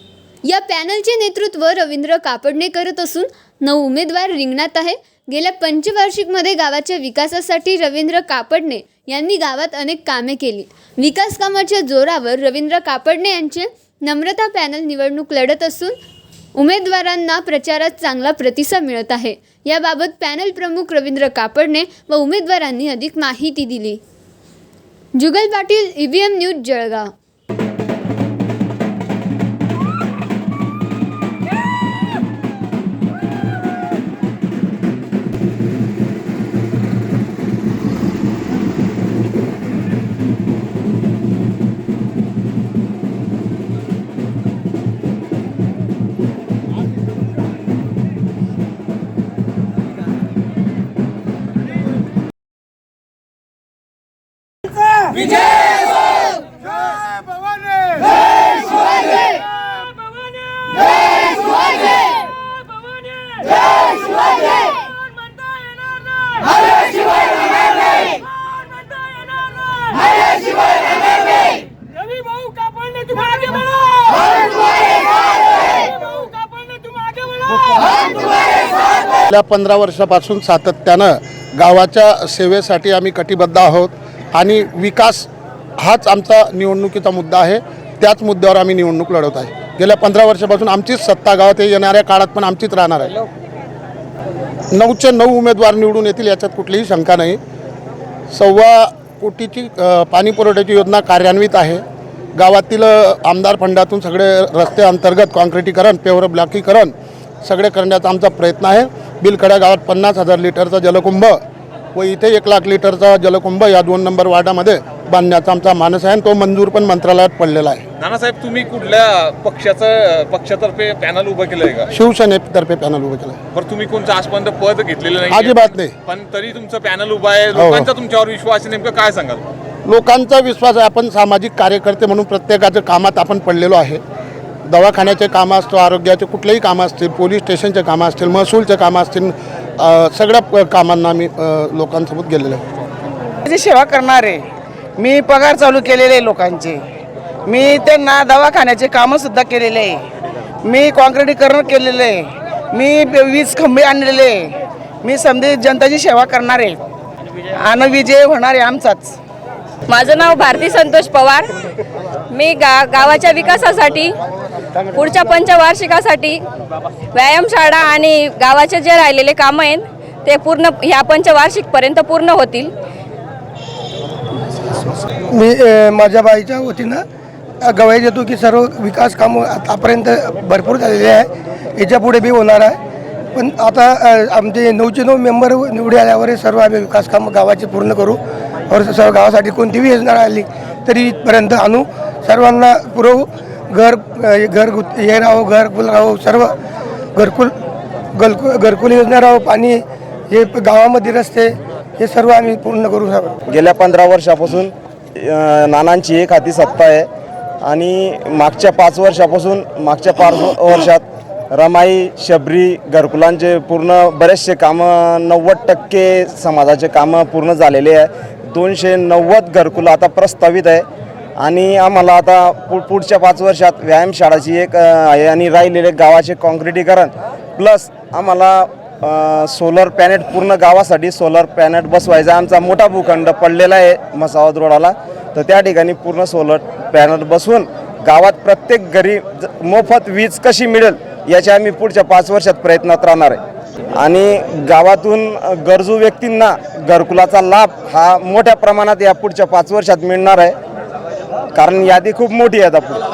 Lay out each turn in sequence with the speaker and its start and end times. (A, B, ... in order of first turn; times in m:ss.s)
0:00.5-0:15.9 A
0:16.6-0:24.0 A
0:25.2-0:27.1 A
1:19.3-1:33.2 B
1:34.7-1:37.4 B
1:38.3-1:41.8 B
1:42.4-1:51.4 B
1:52.0-1:57.8 B
1:58.0-2:01.9 C
2:01.9-2:03.4 B
2:03.5-2:09.4 C
2:05.3-2:05.9 B
2:07.5-2:07.9 B
2:09.9-2:14.0 B
2:14.7-2:22.6 B
2:23.4-2:24.5 D
2:25.0-2:26.8 D
2:27.5-2:30.0 D
2:30.6-2:36.8 D
2:37.6-2:39.2 D
2:39.9-2:41.5 E
2:42.3-2:44.1 E
2:44.9-2:46.4 E
2:47.1-2:52.7 E
2:55.4-2:57.0 F
2:57.6-3:02.8 F
3:03.4-3:16.5 F
3:17.2-3:17.5 F
3:18.2-3:23.3 F
3:23.5-3:27.1 G
3:27.6-3:31.0 G
3:31.6-3:40.8 G
3:41.4-4:03.4 G
4:04.0-4:10.6 G
4:11.6-4:13.0 G